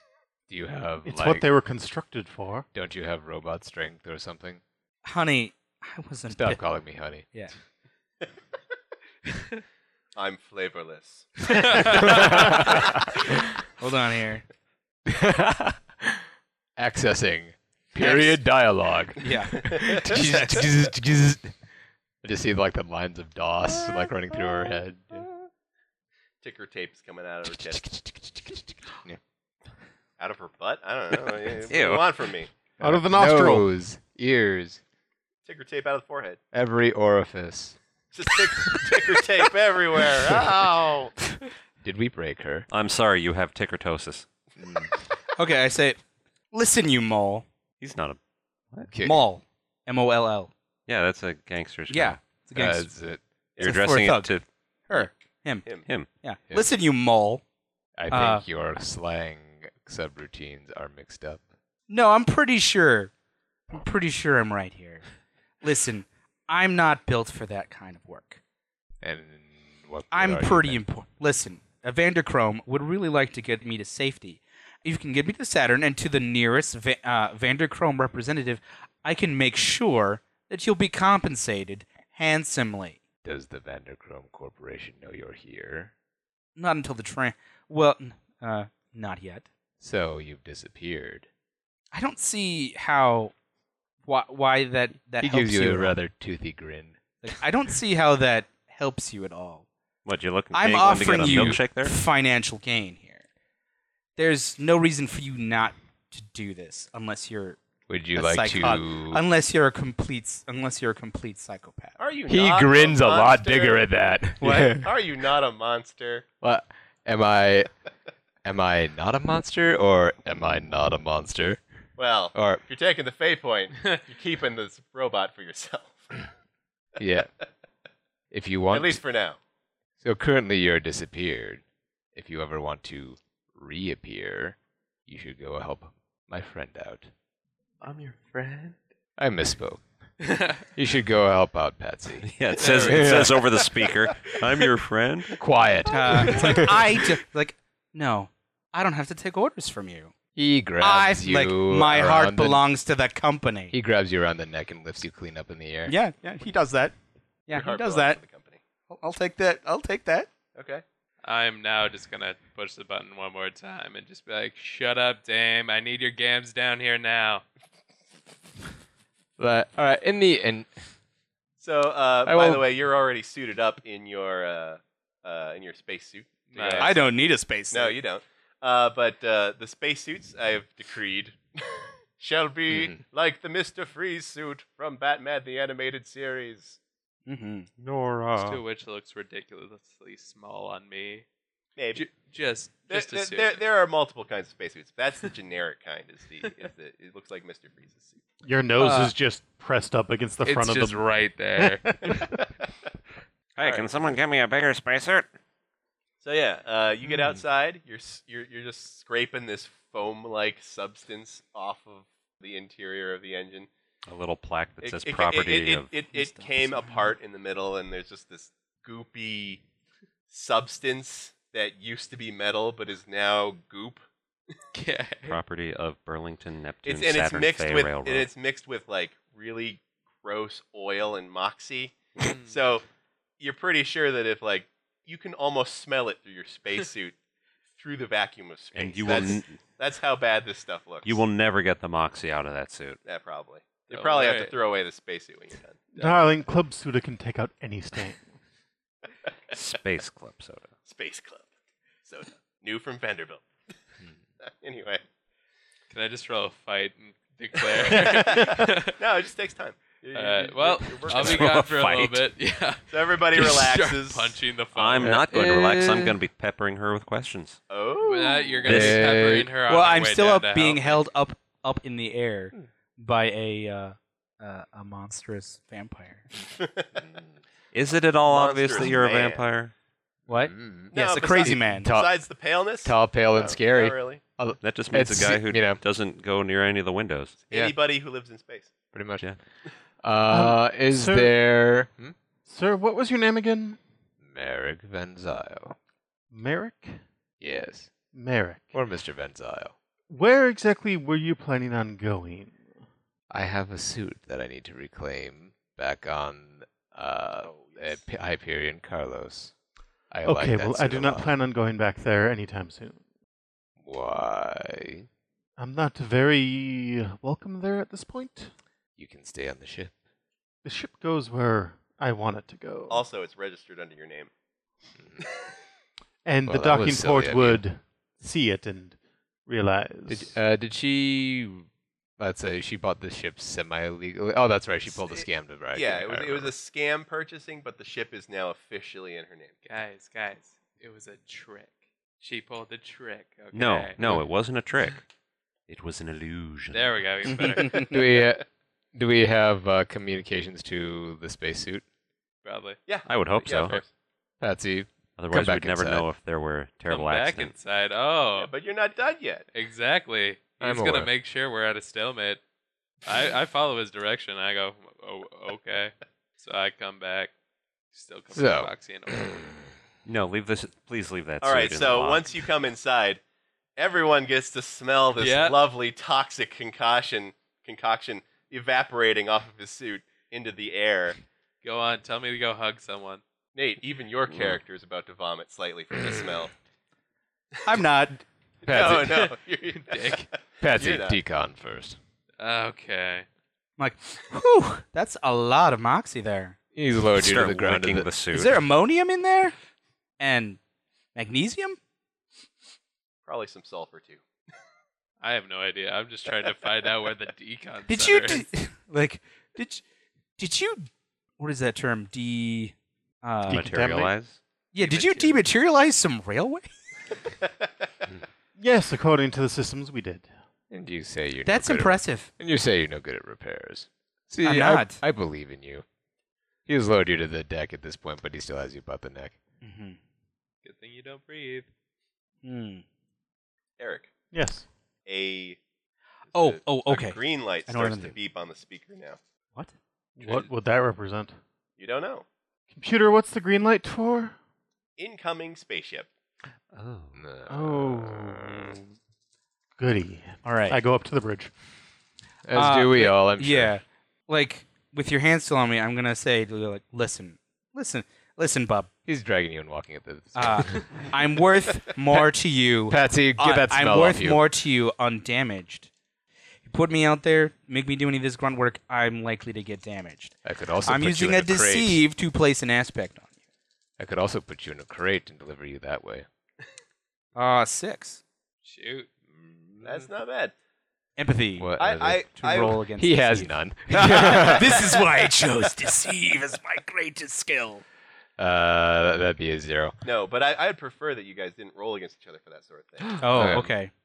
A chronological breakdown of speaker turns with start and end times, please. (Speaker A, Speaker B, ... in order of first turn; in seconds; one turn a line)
Speaker A: 0.5-1.5
Speaker B: 1.1-2.7
Speaker A: 2.7-4.6
Speaker C: 5.0-6.7
Speaker A: 6.3-7.3
Speaker C: 7.2-7.5
Speaker D: 10.2-13.0
Speaker A: 11.9-13.3
Speaker C: 13.8-14.4
Speaker A: 15.1-16.2
Speaker A: 16.8-21.6
Speaker C: 18.0-18.3
Speaker C: 19.2-20.7
Speaker D: 19.6-20.1
Speaker A: 22.2-25.3
Speaker D: 26.4-27.8
Speaker A: 27.5-29.2
Speaker D: 30.2-32.5
Speaker E: 31.7-32.1
Speaker B: 32.8-33.7
Speaker A: 32.8-34.8
Speaker D: 35.5-36.4
Speaker A: 36.5-37.8
Speaker D: 38.1-41.1
Speaker A: 41.8-42.7
Speaker E: 42.7-44.3
Speaker A: 44.6-44.9
Speaker C: 45.4-47.5
Speaker E: 47.8-48.2
Speaker A: 48.9-49.2
Speaker C: 49.0-50.5
Speaker E: 50.9-52.2
Speaker C: 51.9-53.0
Speaker A: 52.5-53.2
Speaker C: 53.6-54.4
Speaker E: 53.6-54.4
Speaker C: 54.9-57.4
Speaker A: 58.0-61.4
Speaker C: 58.1-58.5
Speaker C: 61.9-63.1
Speaker C: 63.7-65.0
Speaker C: 65.6-68.4
Speaker A: 69.0-70.8
Speaker C: 70.1-83.0
Speaker A: 83.2-85.9
Speaker C: 86.6-89.5
Speaker A: 89.8-91.3
Speaker C: 91.9-93.3
Speaker C: 94.0-96.0
Speaker A: 95.2-97.0
Speaker C: 97.2-99.7
Speaker E: 100.0-102.0
Speaker C: 100.5-103.2
Speaker A: 101.0-101.6
Speaker C: 104.2-107.6
Speaker A: 107.9-109.2
Speaker C: 108.2-112.0
Speaker D: 112.0-113.9
Speaker A: 112.3-115.0
Speaker D: 114.4-116.3
Speaker A: 116.4-117.7
Speaker A: 118.4-121.6
Speaker D: 122.0-126.2
Speaker A: 122.3-122.6
Speaker A: 127.0-127.3
Speaker A: 128.3-129.0
Speaker D: 128.7-129.4
Speaker A: 130.0-131.6
Speaker A: 132.2-137.1
Speaker F: 137.8-138.8
Speaker A: 139.2-139.8
Speaker F: 140.2-140.7
Speaker A: 140.6-143.4
Speaker E: 142.2-145.4
Speaker F: 142.6-143.4
Speaker A: 145.3-146.9
Speaker C: 145.9-150.1
Speaker A: 150.3-152.6
Speaker C: 150.8-153.7
Speaker A: 153.7-156.0
Speaker C: 155.9-157.0
Speaker C: 157.5-158.2
Speaker D: 157.5-158.6
Speaker C: 158.9-160.3
Speaker D: 160.6-160.8
Speaker F: 161.2-167.4
Speaker A: 169.4-170.7
Speaker D: 171.6-177.1
Speaker A: 172.2-172.7
Speaker F: 176.5-177.0
Speaker C: 176.8-177.9
Speaker D: 177.7-186.8
Speaker A: 182.7-183.0
Speaker C: 187.3-187.7
Speaker E: 187.8-188.6
Speaker F: 188.4-191.2
Speaker D: 191.8-192.1
Speaker F: 191.9-193.6
Speaker D: 192.9-198.2
Speaker B: 198.4-201.0
Speaker F: 198.8-199.1
Speaker F: 200.4-202.3
Speaker B: 201.6-202.3
Speaker E: 203.6-205.3
Speaker D: 203.6-203.9
Speaker D: 206.2-213.7
Speaker E: 214.1-215.9
Speaker D: 214.8-219.6
Speaker C: 216.1-217.1
Speaker D: 220.3-224.0
Speaker F: 224.7-225.4
Speaker E: 225.3-228.3
Speaker D: 226.9-232.8
Speaker F: 232.2-232.5
Speaker D: 233.4-237.2
Speaker D: 237.8-241.2
Speaker E: 238.7-239.6
Speaker E: 241.0-243.0
Speaker D: 243.1-245.9
Speaker F: 243.9-244.6
Speaker F: 246.0-246.2
Speaker B: 246.0-248.2
Speaker E: 249.5-250.7
Speaker D: 250.9-251.5
Speaker D: 252.1-253.4
Speaker D: 254.4-255.0
Speaker F: 255.9-259.0
Speaker D: 257.6-261.6
Speaker F: 260.1-265.2
Speaker E: 261.1-262.2
Speaker D: 262.9-264.4
Speaker E: 264.8-267.6
Speaker A: 265.0-266.2
Speaker D: 267.7-268.6
Speaker F: 268.0-271.1
Speaker A: 268.6-269.5
Speaker E: 268.7-269.1
Speaker C: 269.7-276.2
Speaker D: 276.6-277.0
Speaker E: 277.7-279.7
Speaker D: 278.2-279.5
Speaker C: 280.3-281.9
Speaker A: 280.3-282.2
Speaker D: 280.9-284.2
Speaker A: 282.8-285.8
Speaker E: 284.6-287.4
Speaker D: 287.4-288.7
Speaker A: 288.9-289.4
Speaker A: 290.0-292.1
Speaker B: 290.3-291.4
Speaker B: 292.5-293.8
Speaker A: 294.2-295.8
Speaker B: 296.3-297.0
Speaker A: 297.4-297.9
Speaker B: 298.1-298.7
Speaker A: 298.7-299.8
Speaker B: 300.1-302.6
Speaker A: 303.3-309.5
Speaker D: 307.4-308.0
Speaker A: 310.1-311.3
Speaker B: 310.2-313.0
Speaker A: 313.8-315.1
Speaker B: 315.6-318.5
Speaker A: 319.0-319.9
Speaker B: 320.6-323.1
Speaker D: 322.9-324.3
Speaker B: 326.3-330.4
Speaker A: 326.5-327.6
Speaker A: 330.1-336.5
Speaker D: 335.7-339.6
Speaker F: 339.6-344.1
Speaker E: 343.5-345.0
Speaker E: 345.7-347.7
Speaker F: 346.7-348.2
Speaker A: 347.8-351.9
Speaker F: 352.4-352.8
Speaker D: 352.9-353.9
Speaker E: 353.1-353.8
Speaker A: 354.4-356.1
Speaker E: 355.2-357.5
Speaker F: 356.9-358.5
Speaker D: 358.3-359.5
Speaker F: 359.5-362.4
Speaker A: 360.6-361.1
Speaker F: 363.0-367.3
Speaker F: 367.9-369.5
Speaker A: 368.3-369.5
Speaker E: 370.1-372.4
Speaker D: 371.4-373.2
Speaker D: 373.8-381.2
Speaker F: 375.2-375.6
Speaker F: 381.6-383.2
Speaker D: 383.5-386.5
Speaker E: 384.3-384.6
Speaker C: 387.6-388.2
Speaker D: 388.6-391.2
Speaker A: 388.7-389.3
Speaker F: 388.9-390.3
Speaker A: 390.6-392.0
Speaker F: 392.4-393.3
Speaker C: 393.8-396.6
Speaker A: 396.7-398.1
Speaker E: 397.2-398.6
Speaker C: 398.3-399.6
Speaker C: 400.2-400.6
Speaker C: 401.1-401.8
Speaker D: 403.3-404.2
Speaker F: 405.2-408.4
Speaker C: 407.9-409.8
Speaker C: 410.4-410.9
Speaker C: 411.4-414.0
Speaker E: 413.5-414.4
Speaker B: 413.5-414.1
Speaker C: 414.7-416.7
Speaker F: 414.8-415.4
Speaker B: 418.6-420.3
Speaker A: 420.7-425.9
Speaker C: 421.4-422.3
Speaker C: 424.4-425.0
Speaker A: 426.7-429.4
Speaker C: 429.6-430.0
Speaker F: 430.6-431.7
Speaker C: 432.4-432.8
Speaker D: 433.8-434.1
Speaker B: 434.3-434.7
Speaker D: 435.1-435.6
Speaker D: 436.3-439.2
Speaker C: 436.3-438.2
Speaker B: 440.2-441.3
Speaker D: 441.8-442.3
Speaker B: 442.7-444.4
Speaker D: 445.0-446.1
Speaker E: 446.7-447.2
Speaker A: 447.1-448.8
Speaker B: 447.5-448.8
Speaker B: 449.8-451.5
Speaker C: 450.4-450.8
Speaker A: 452.4-453.8
Speaker C: 452.5-458.9
Speaker A: 459.1-460.9
Speaker C: 460.4-465.9
Speaker A: 462.9-464.5
Speaker C: 466.6-473.3
Speaker A: 470.4-472.0
Speaker A: 474.0-476.3
Speaker C: 477.4-478.2
Speaker F: 478.6-480.0
Speaker D: 479.8-480.5
Speaker C: 481.2-481.8
Speaker A: 481.6-482.2
Speaker D: 481.8-482.8
Speaker C: 482.3-487.8
Speaker A: 483.0-484.8
Speaker D: 484.7-485.1
Speaker A: 488.4-490.0
Speaker D: 490.0-493.6
Speaker C: 493.2-493.9
Speaker A: 493.3-493.7